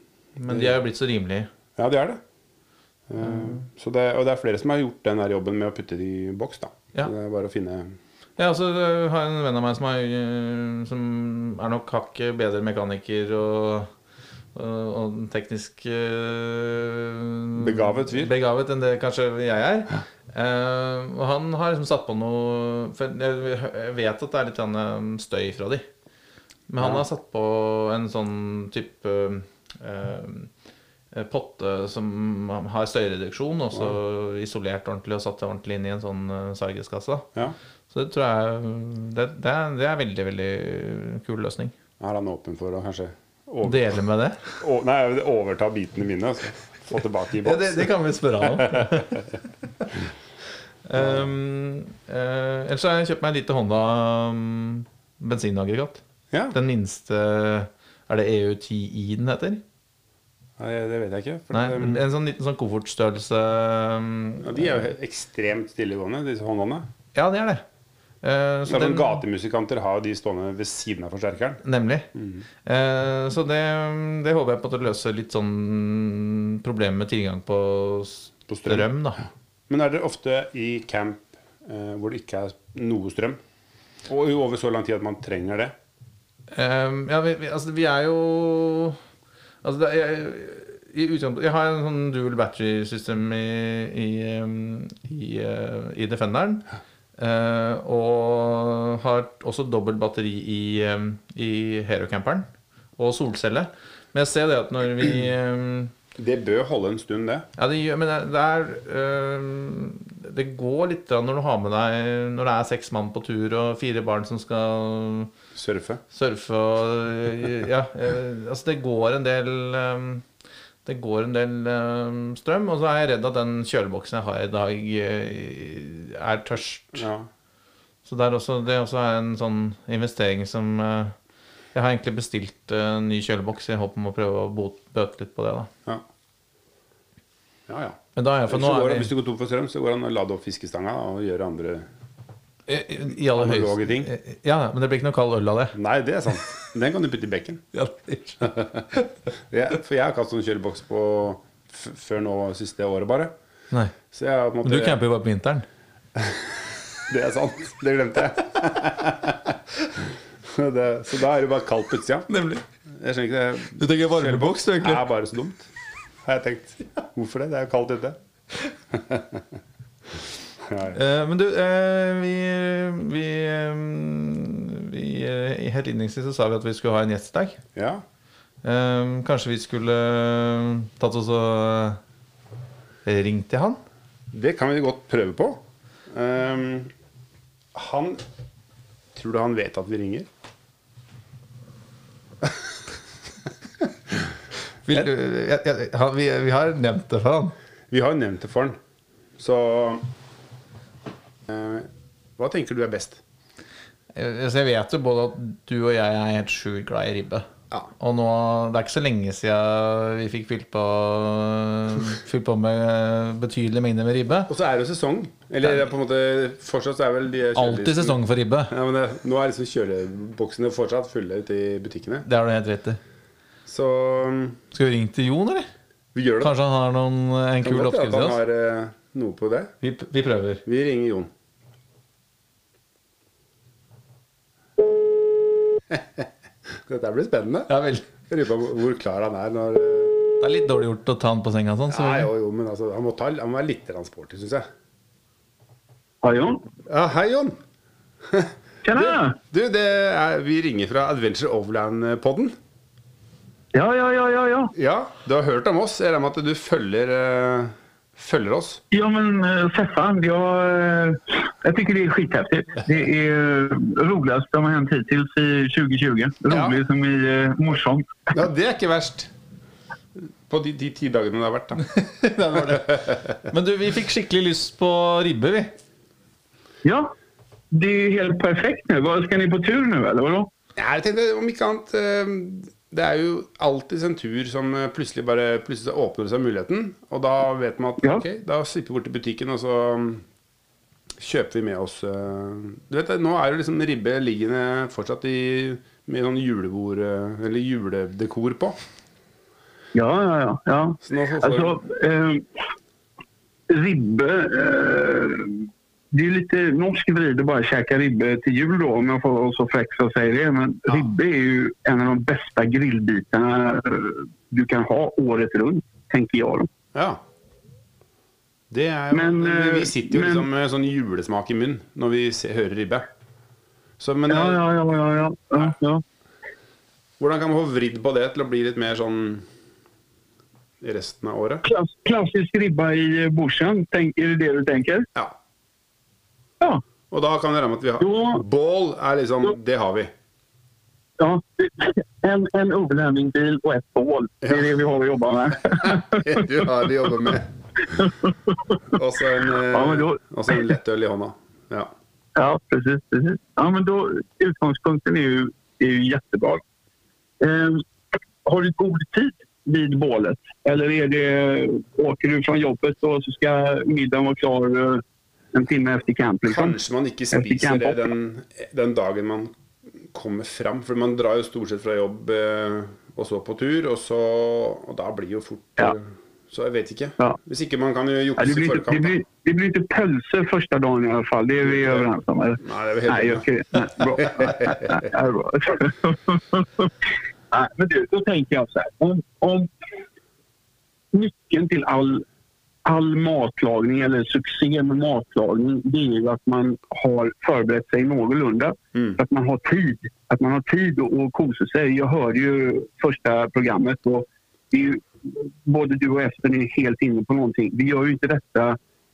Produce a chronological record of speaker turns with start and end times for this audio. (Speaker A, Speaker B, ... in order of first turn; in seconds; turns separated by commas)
Speaker A: 0.4-1.5, Speaker B: 0.5-0.8, Speaker B: 1.8-2.2, Speaker B: 3.1-8.0, Speaker A: 3.2-3.6, Speaker A: 8.4-13.9, Speaker A: 14.5-25.9, Speaker B: 17.6-18.3, Speaker A: 26.7-30.5, Speaker B: 26.8-27.1, Speaker A: 31.1-37.3, Speaker A: 37.9-41.7, Speaker B: 42.0-44.0, Speaker A: 43.6-44.6, Speaker B: 44.6-49.2, Speaker A: 47.4-49.3, Speaker A: 50.9-59.6, Speaker B: 51.0-51.3, Speaker B: 60.6-62.0, Speaker A: 61.5-64.8, Speaker B: 64.4-66.9, Speaker A: 67.1-67.6, Speaker A: 68.2-69.2, Speaker B: 68.7-71.6, Speaker A: 71.6-72.1, Speaker B: 72.1-72.5, Speaker A: 72.6-79.2, Speaker B: 78.5-83.4, Speaker B: 84.1-85.7, Speaker A: 86.5-89.0, Speaker A: 89.6-96.7, Speaker A: 97.2-102.5, Speaker A: 103.0-105.9, Speaker B: 106.2-107.5, Speaker A: 107.6-115.3, Speaker B: 115.5-116.0, Speaker A: 116.1-120.2, Speaker A: 120.8-127.1, Speaker B: 127.0-127.3, Speaker A: 128.1-131.2, Speaker A: 131.7-135.7, Speaker B: 137.7-141.9, Speaker A: 138.2-139.1, Speaker A: 142.7-145.8, Speaker B: 143.1-144.1, Speaker B: 145.7-147.6, Speaker A: 147.7-149.1, Speaker B: 148.4-148.8, Speaker B: 149.5-153.3, Speaker B: 154.1-155.0, Speaker A: 154.6-155.7, Speaker B: 157.1-162.3, Speaker A: 162.3-162.6, Speaker B: 162.9-165.7, Speaker A: 163.8-165.1, Speaker B: 166.2-168.2, Speaker B: 168.9-169.4, Speaker B: 170.6-171.0, Speaker A: 170.9-177.6, Speaker B: 177.8-178.0, Speaker A: 178.6-182.0, Speaker A: 183.1-183.8, Speaker B: 184.3-186.9, Speaker B: 187.7-188.2, Speaker B: 189.2-190.3, Speaker A: 194.9-197.5, Speaker B: 197.9-198.8, Speaker B: 199.4-200.1, Speaker B: 201.5-203.2, Speaker A: 204.2-214.5, Speaker B: 214.5-218.2, Speaker A: 217.6-218.7, Speaker B: 218.7-222.3, Speaker A: 222.2-223.0, Speaker B: 223.7-224.6, Speaker A: 224.7-225.7, Speaker B: 226.2-226.5, Speaker A: 226.4-228.4, Speaker B: 227.6-229.7, Speaker A: 229.8-230.6, Speaker B: 230.7-231.3, Speaker B: 235.9-237.7, Speaker A: 237.7-238.1, Speaker B: 238.3-240.2, Speaker A: 240.4-242.3, Speaker B: 241.9-244.7, Speaker C: 246.2-246.7, Speaker B: 246.9-247.6, Speaker B: 248.2-252.6, Speaker C: 248.8-249.4, Speaker C: 253.7-254.7, Speaker B: 254.8-258.8, Speaker C: 258.9-268.3, Speaker B: 266.5-266.8, Speaker B: 268.3-269.3, Speaker B: 270.2-271.8, Speaker A: 271.9-275.7, Speaker B: 272.7-273.1, Speaker C: 276.8-277.1, Speaker C: 277.7-280.5, Speaker B: 280.8-290.2, Speaker B: 291.2-298.8, Speaker C: 299.9-302.5, Speaker B: 301.0-301.8, Speaker C: 303.7-316.7, Speaker B: 316.9-317.2, Speaker B: 318.7-323.1, Speaker C: 319.1-320.4, Speaker B: 324.0-324.6, Speaker C: 324.3-326.0, Speaker B: 327.2-329.5, Speaker B: 330.8-331.6, Speaker C: 331.6-335.1, Speaker B: 337.1-340.1, Speaker C: 338.0-338.4, Speaker C: 341.2-346.7, Speaker B: 345.8-347.5, Speaker C: 347.9-349.0, Speaker B: 348.9-351.9, Speaker C: 349.7-350.7, Speaker C: 352.4-356.6, Speaker C: 357.4-357.8, Speaker C: 358.4-365.0, Speaker C: 365.5-366.8, Speaker B: 366.5-369.5, Speaker C: 367.3-368.0, Speaker B: 370.1-379.2, Speaker C: 378.4-386.9, Speaker B: 381.6-382.1, Speaker B: 382.6-383.5, Speaker B: 384.0-384.9, Speaker C: 387.5-389.7, Speaker C: 391.1-392.2, Speaker C: 392.9-408.8, Speaker B: 398.9-399.2